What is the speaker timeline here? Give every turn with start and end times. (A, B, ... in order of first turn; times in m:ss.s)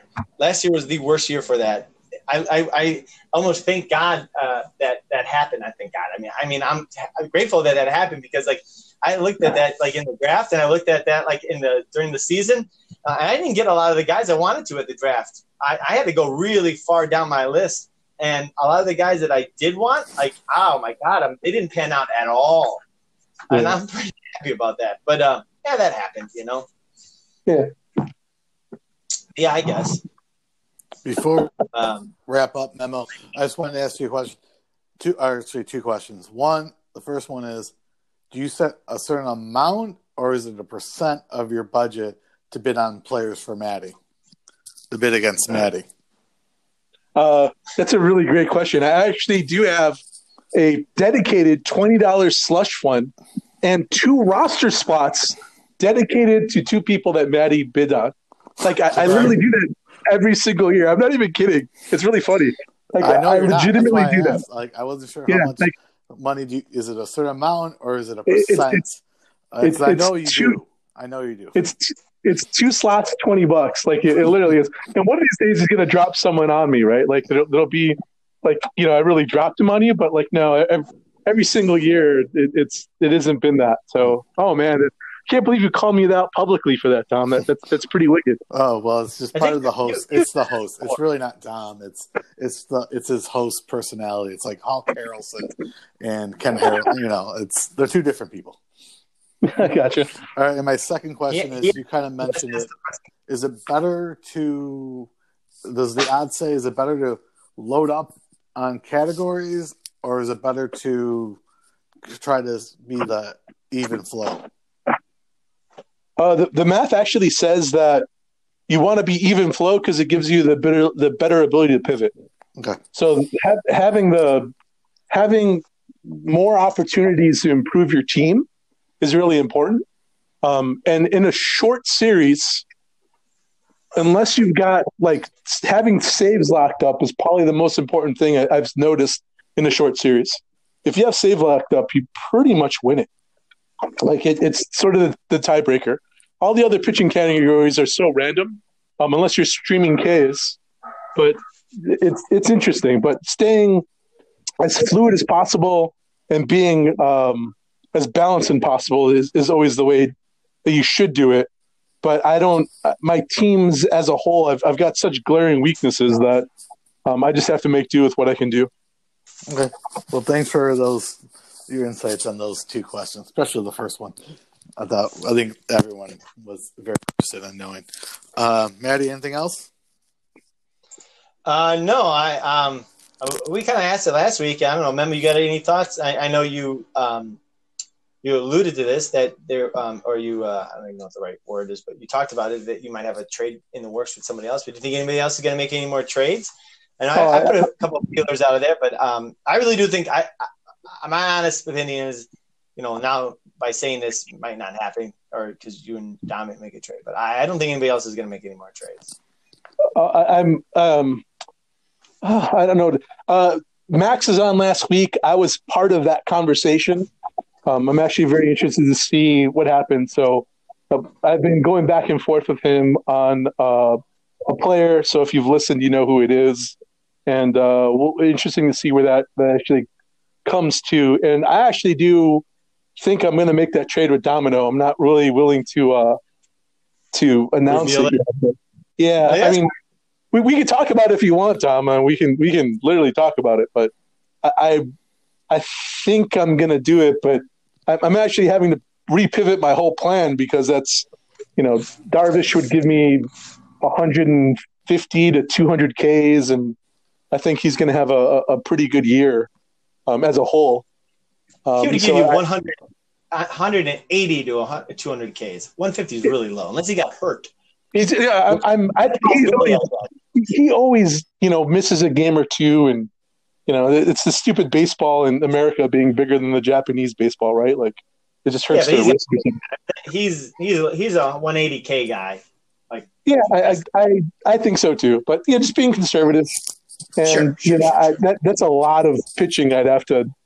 0:00.4-0:22.8 A
0:23.5-0:26.7 A
0:23.5-0:23.8 B
0:29.4-0:30.0 A
0:31.0-0:31.5 C
0:31.7-0:32.1 A
0:32.2-0:34.4 C
0:35.0-0:37.7 C
0:38.3-0:44.0 C
0:44.9-0:45.8 C
0:47.2-0:50.0 B
0:50.5-1:04.4 B
0:59.0-0:59.3 C
1:03.0-1:09.0 C
1:05.3-1:05.7 B
1:08.3-1:08.8 B
1:09.5-1:11.6 C
1:09.6-1:10.6 B
1:11.5-1:28.4 B
1:28.5-1:38.6 C
1:29.3-1:30.2 A
1:39.4-1:40.1 B
1:40.3-1:42.7 C
1:41.3-1:41.8 A
1:42.3-1:43.0 A
1:43.3-1:45.1 C
1:45.6-1:51.4 C
1:52.1-1:54.5 C
1:56.2-1:58.0 B
1:58.7-2:02.1 B
2:02.9-2:04.5 B
2:05.1-2:08.4 B
2:09.0-2:09.8 B
2:10.4-2:12.6 B
2:14.0-2:23.1 B
2:24.0-2:30.6 B
2:31.1-2:33.8 B
2:34.6-2:40.1 B
2:40.6-2:41.5 B
2:42.0-2:46.5 B
2:47.0-2:48.7 B
2:49.5-2:54.2 C
2:54.8-2:59.7 C
3:01.4-3:07.4 A
3:08.2-3:29.1 A
3:17.1-3:17.7 B
3:29.9-3:31.2 B
3:32.2-3:37.1 B
3:37.6-3:46.8 B
3:47.3-3:49.8 B
3:50.4-3:52.4 B
3:53.0-3:56.2 B
3:57.1-3:59.7 B
3:57.7-3:58.2 A
3:59.2-3:59.6 A
4:00.3-4:03.9 B
4:04.4-4:04.9 B
4:05.5-4:11.0 B
4:11.6-4:13.3 B
4:13.8-4:16.8 B
4:17.3-4:19.5 B
4:20.1-4:20.8 B
4:21.6-4:22.4 B
4:21.8-4:22.8 A
4:23.3-4:27.5 A
4:27.9-4:33.1 B
4:29.2-4:30.1 A
4:33.7-4:39.6 B
4:38.7-4:43.1 A
4:43.2-4:50.3 B
4:47.2-4:48.2 A